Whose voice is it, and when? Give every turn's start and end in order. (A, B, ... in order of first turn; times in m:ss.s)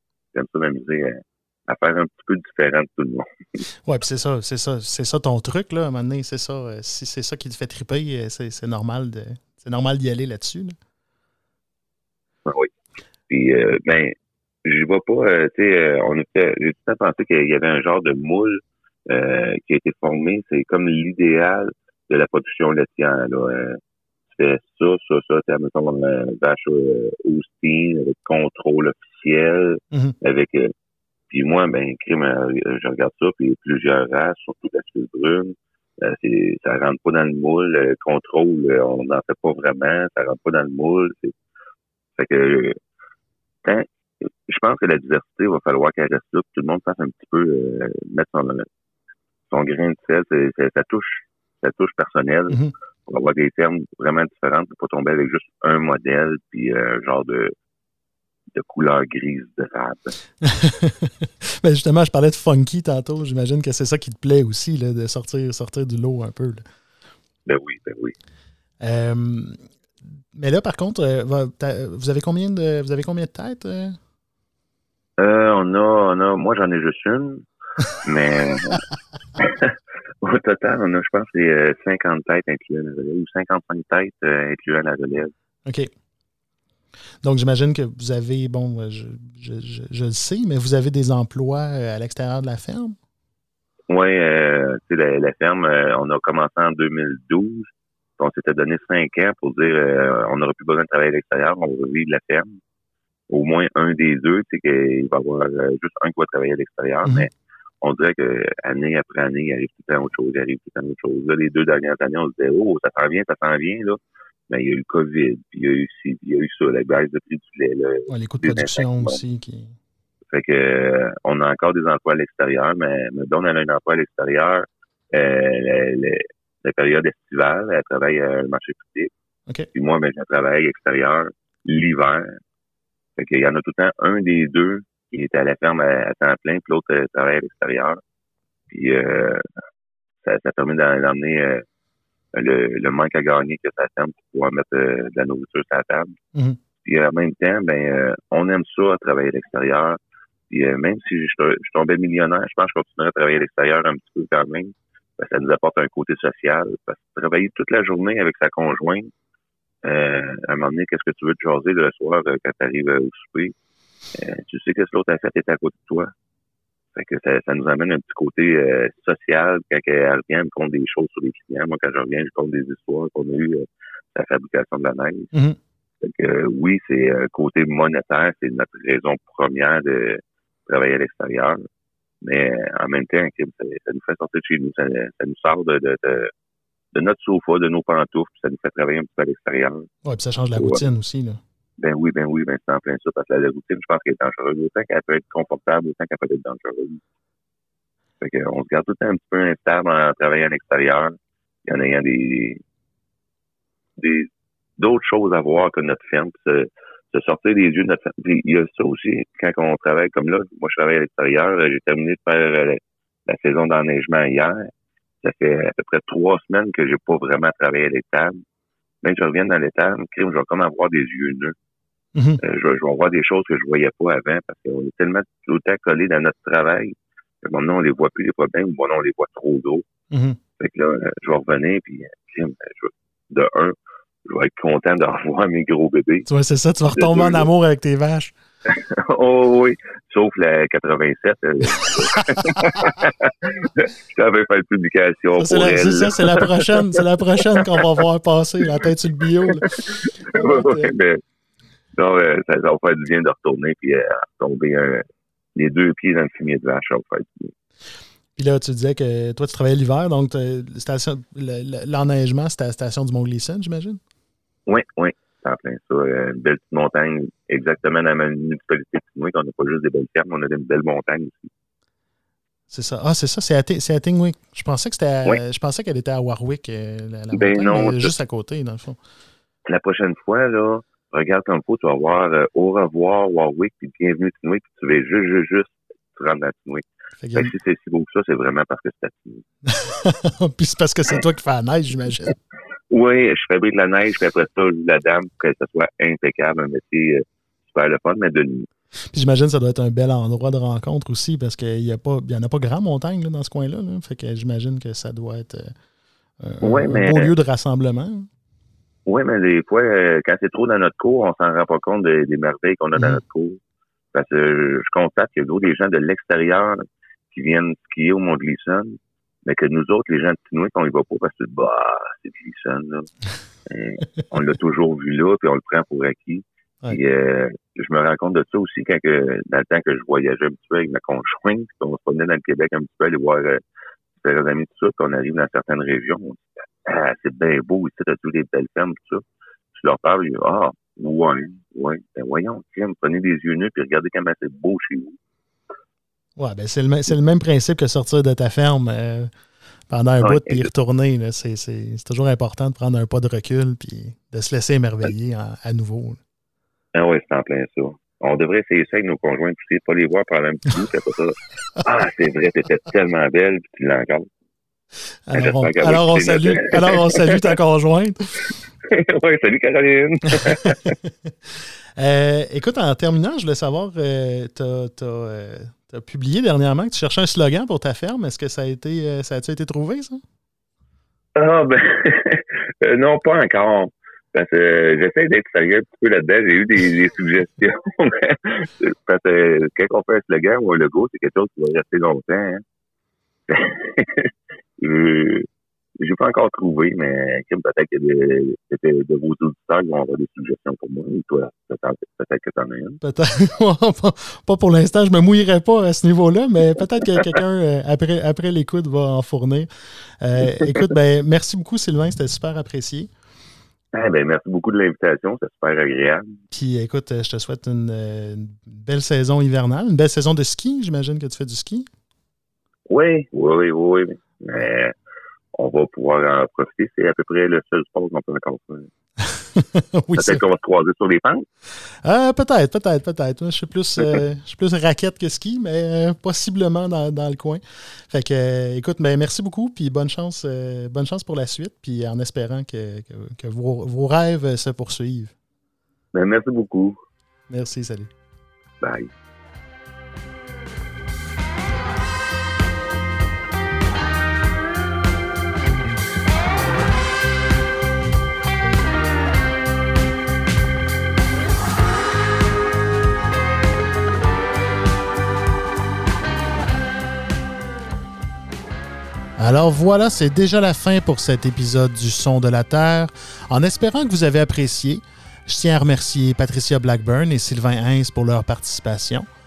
0:00.3-0:03.3 A
0:03.9-0:10.8 B
0:12.5-0:12.7 A
0:13.3-0:23.8 A
0:24.3-0:30.7 A
0:31.3-0:41.3 A
0:42.2-0:42.8 A
0:44.5-0:48.7 A
0:49.5-0:57.5 A
0:58.5-1:00.1 A
1:00.4-1:06.7 B
1:07.5-1:08.2 A
1:08.8-1:09.6 B
1:10.3-1:14.0 B
1:15.2-1:17.5 A
1:18.0-1:18.8 A
1:19.4-1:25.3 A
1:25.6-1:25.9 B
1:27.2-1:33.0 B
1:33.9-1:42.6 A
1:43.3-1:47.3 A
1:47.8-1:59.2 A
1:58.1-1:59.8 B
2:00.3-2:09.1 A
2:09.7-2:12.4 A
2:13.2-2:18.0 A
2:18.7-2:19.4 A
2:20.2-2:21.6 A
2:22.3-2:26.2 A
2:26.8-2:30.0 A
2:30.5-2:39.1 A
2:39.8-2:43.6 A
2:44.2-2:46.1 A
2:47.0-2:55.3 A
2:56.0-3:01.6 A
3:02.2-3:06.3 A
3:06.9-3:09.9 A
3:10.0-3:11.4 B
3:10.6-3:10.8 A
3:11.8-3:17.0 A
3:18.2-3:22.6 A
3:24.0-3:34.7 A
3:35.2-3:38.4 A
3:39.0-3:41.6 A
3:42.2-3:42.4 B
3:42.4-3:49.9 A
3:50.1-3:50.4 B
3:50.6-3:53.8 A
3:54.3-3:56.3 A
3:56.3-3:58.3 B
3:56.9-3:57.5 A
3:58.7-4:07.9 A
4:02.2-4:02.9 B
4:05.4-4:10.9 B
4:09.5-4:11.2 A
4:12.0-4:15.0 A
4:15.6-4:17.5 A
4:18.4-4:24.0 B
4:24.7-4:31.5 A
4:32.7-4:39.0 B
4:37.3-4:38.1 A
4:39.7-4:49.4 A
4:47.2-4:47.5 B
4:49.7-4:52.4 B
4:52.9-4:58.7 A
4:59.1-5:05.8 B
5:06.4-5:08.3 B
5:06.6-5:07.3 A
5:09.1-5:13.6 A
5:13.0-5:13.2 B
5:14.1-5:23.1 A
5:23.7-5:33.6 A
5:34.2-5:39.2 A
5:39.8-5:45.2 A
5:46.4-5:49.3 B
5:49.9-5:56.2 B
5:50.2-5:50.7 A
5:56.9-6:04.3 A
6:05.3-6:08.4 B
6:05.3-6:07.5 A
6:08.9-6:11.0 A
6:10.3-6:20.2 B
6:21.4-6:32.6 A
6:33.5-6:35.5 A
6:36.0-6:43.0 A
6:43.0-6:49.7 B
6:50.2-6:53.1 B
6:53.9-6:56.3 A
6:56.5-7:01.9 B
7:02.9-7:04.9 A
7:05.6-7:08.9 A
7:09.2-7:10.4 B
7:10.2-7:11.4 A
7:12.0-7:25.3 B
7:26.1-7:27.0 A
7:27.5-7:28.1 B
7:28.8-7:29.1 A
7:49.4-7:59.3 B